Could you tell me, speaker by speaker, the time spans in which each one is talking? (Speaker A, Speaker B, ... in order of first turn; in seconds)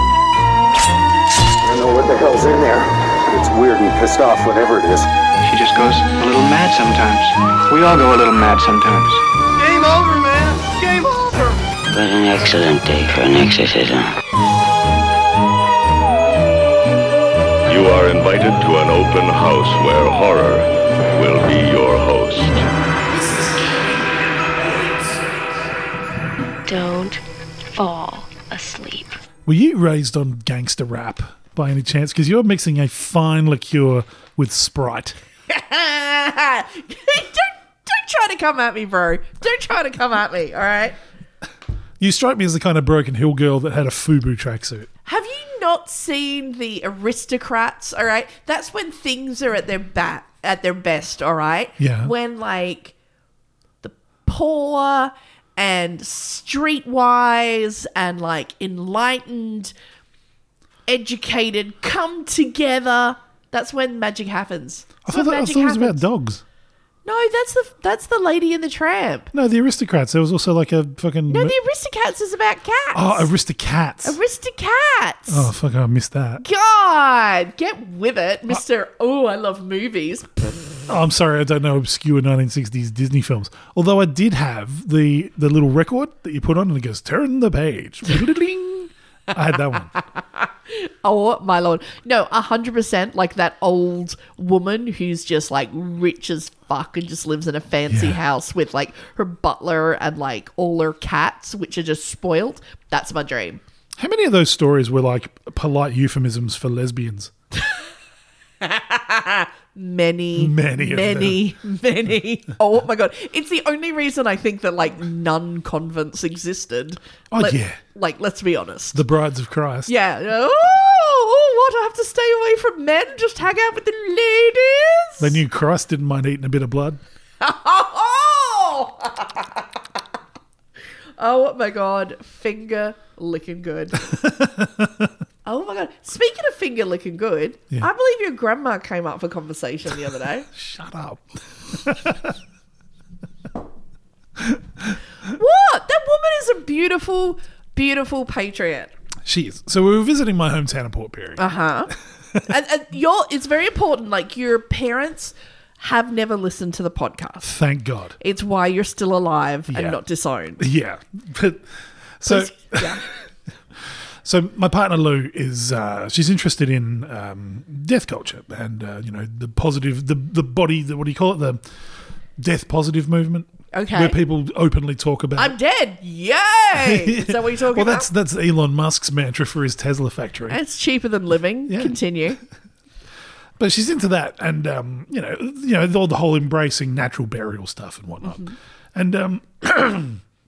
Speaker A: 1.6-5.1
Speaker B: 5.4-9.2
Speaker C: 9.6-11.7
Speaker D: 11.9-14.1
Speaker E: 17.7-22.7
Speaker F: 23.1-25.4, 29.5-35.2, 42.0-44.9, 51.8-52.1, 65.1-66.4, 69.3-71.6, 72.9-74.2, 75.3-76.4, 80.9-89.9, 97.9-98.2, 104.0-107.3, 110.4-111.4, 117.3-117.8, 118.9-119.9, 125.2-127.0, 134.1-135.1, 140.5-142.3, 144.4-144.9, 149.2-151.5, 157.4-158.2, 159.7-160.0, 160.6-161.7, 162.2-163.1, 164.2-171.6, 172.4-175.6, 176.7-180.6, 181.7-182.0, 183.6-190.2
Speaker G: 26.7-27.2, 27.8-29.2
Speaker H: 35.5-41.0, 45.1-52.9, 53.8-59.7, 60.9-66.0, 67.0-69.3, 71.3-73.3, 74.0-75.5, 76.4-80.5, 90.4-103.6, 108.6-119.0, 119.9-125.4, 127.4-129.7, 131.2-134.1, 135.4-140.5, 145.2-148.9, 151.4-151.9, 152.5-157.5, 158.2-160.6, 162.3-163.0, 173.7-174.2, 175.4-178.1, 180.5-182.4, 188.2-188.6